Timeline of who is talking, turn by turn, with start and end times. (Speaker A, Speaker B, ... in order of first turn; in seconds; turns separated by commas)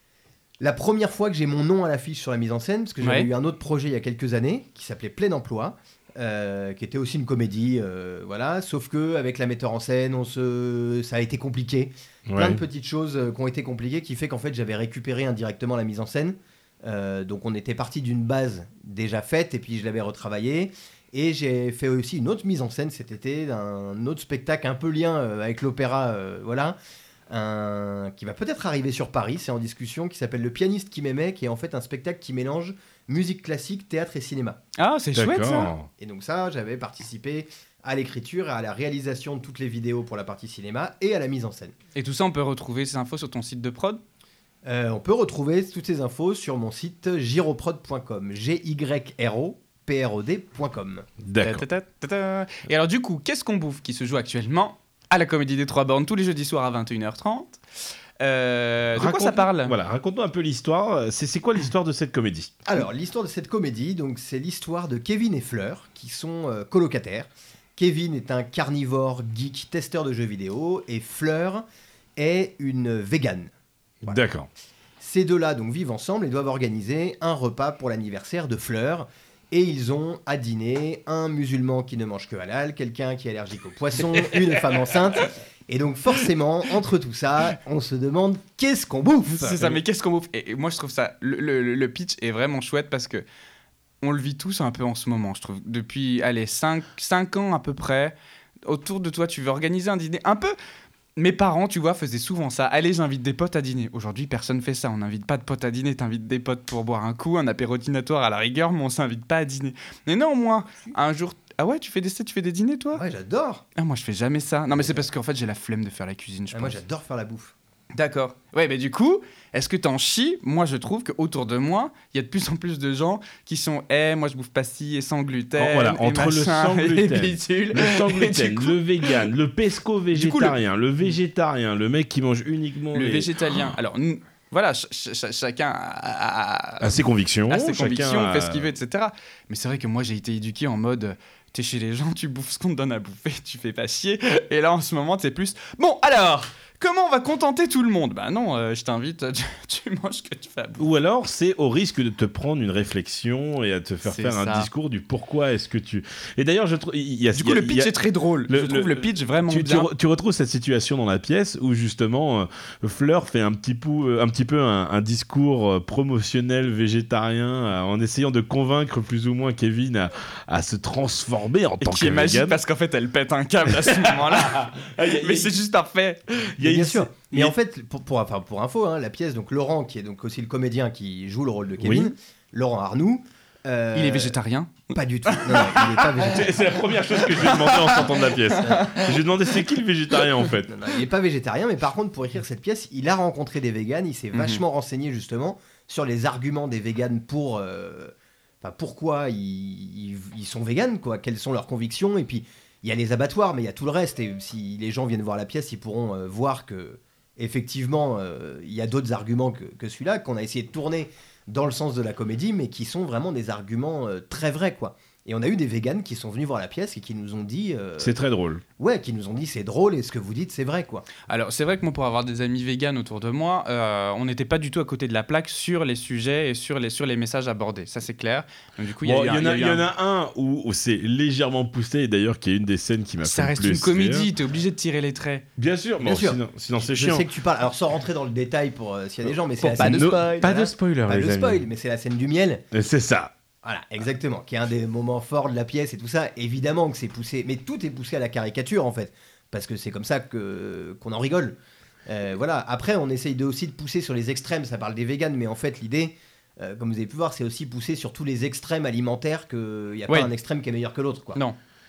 Speaker A: 0.6-26.8, Speaker B: 3.0-3.3, Speaker C: 12.3-12.6, Speaker A: 27.3-34.6, Speaker B: 34.8-35.7, Speaker C: 35.1-35.9, Speaker A: 36.0-41.8, Speaker B: 42.0-44.0, Speaker A: 44.6-51.1, Speaker C: 51.2-51.6, Speaker B: 51.4-57.6, Speaker B: 58.2-59.8, Speaker C: 59.0-62.6, Speaker A: 62.7-71.6, Speaker A: 72.2-73.5, Speaker C: 74.0-74.5, Speaker A: 75.0-89.8, Speaker B: 89.3-93.2, Speaker B: 94.0-100.5, Speaker B: 101.2-113.0, Speaker A: 113.0-113.6, Speaker B: 113.8-116.8, Speaker A: 116.5-117.5, Speaker B: 118.0-129.2, Speaker C: 125.6-133.7, Speaker B: 130.2-130.6, Speaker B: 132.9-150.8, Speaker C: 136.8-138.8, Speaker C: 150.8-172.6, Speaker B: 154.1-154.7, Speaker B: 157.3-159.9, Speaker B: 171.8-176.5, Speaker C: 173.7-175.5, Speaker C: 176.6-177.5, Speaker A: 176.6-184.4, Speaker C: 181.8-182.1, Speaker B: 183.9-186.1, Speaker A: 184.9-186.6, Speaker C: 186.2-190.8, Speaker B: 187.2-189.1, Speaker A: 188.6-188.9, Speaker A: 190.7-218.2, Speaker B: 194.3-194.6, Speaker C: 218.0-218.6, Speaker A: 218.8-221.1, Speaker B: 221.3-229.9, Speaker C: 229.0-234.3, Speaker B: 233.2-235.4, Speaker C: 235.6-237.2, Speaker A: 236.0-242.7, Speaker B: 239.6-240.5, Speaker C: 239.7-241.6, Speaker C: 242.7-243.3, Speaker A: 243.6-261.4